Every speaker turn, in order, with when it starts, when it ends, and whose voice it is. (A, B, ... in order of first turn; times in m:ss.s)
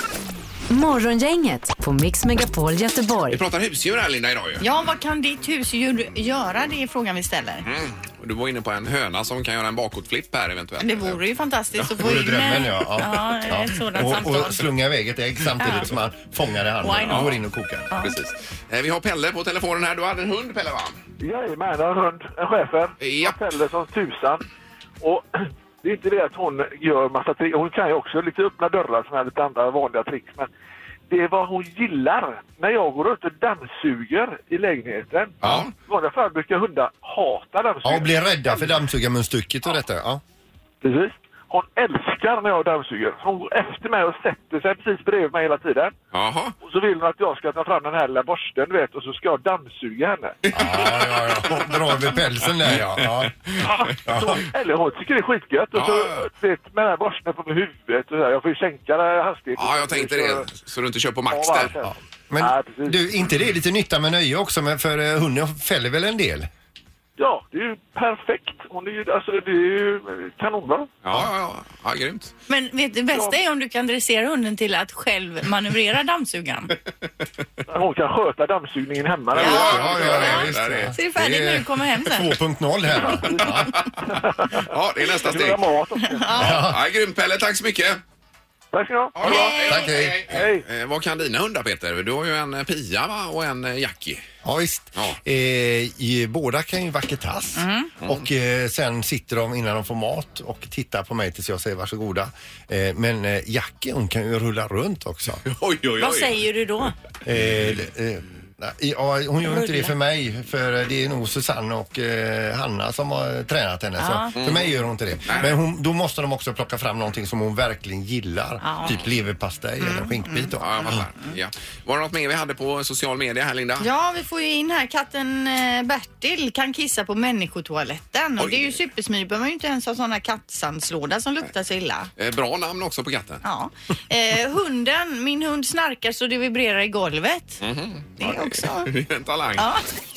0:00.7-0:03.4 A
0:03.3-0:04.6 B
0:04.6-0:07.6 C
0:07.6-0:11.2 B
0:10.8-0:14.6 C
0:12.0-0:17.9 D
0:15.6-0:15.9 C
0:16.8-0:17.4 C
0:17.9-0:18.2 C
0:18.0-0:21.0 B
0:21.2-0:24.4 E
0:23.0-0:23.4 B
0:25.0-0:30.5 E
0:31.1-0:38.8 E
0:35.4-0:35.7 B
0:37.8-0:40.2 D
0:40.8-0:45.9 E
0:46.1-0:46.6 B
0:46.6-0:50.4 E
0:50.5-0:51.6 B
0:50.5-0:53.4 D
0:53.6-1:00.5 E
0:54.1-0:54.4 D
0:55.7-0:56.2 B
0:59.6-1:01.7 B
1:01.3-1:03.1 E
1:01.8-1:06.5 D
1:07.2-1:10.9 E
1:11.0-1:12.3 B
1:12.5-1:16.8 C
1:17.7-1:20.1 E
1:19.4-1:20.9 B
1:19.4-1:23.7 D
1:19.4-1:22.3 C
1:23.0-1:26.3 E
1:24.6-1:25.6 B
1:26.0-1:26.6 C
1:26.4-1:26.8 D
1:26.4-1:28.0 B
1:28.7-1:29.4 E
1:29.2-1:34.2 B
1:29.2-1:29.9 C
1:29.4-1:30.4 D
1:30.3-1:30.6 E
1:34.4-1:45.4 D
1:37.6-1:37.9 C
1:45.5-1:46.4 B
1:46.0-1:46.9 C
1:47.2-2:01.1 D
1:49.4-1:49.9 C
1:54.0-1:54.3 C
1:54.4-1:54.7 B
1:55.3-1:55.6 B
1:58.6-1:59.0 C
1:59.8-2:00.5 C
2:00.6-2:03.9 B
2:03.8-2:12.1 C
2:08.4-2:08.7 B
2:12.2-2:13.4 B
2:13.4-2:17.6 C
2:17.6-2:19.7 B
2:18.2-2:18.9 C
2:19.6-2:19.8 C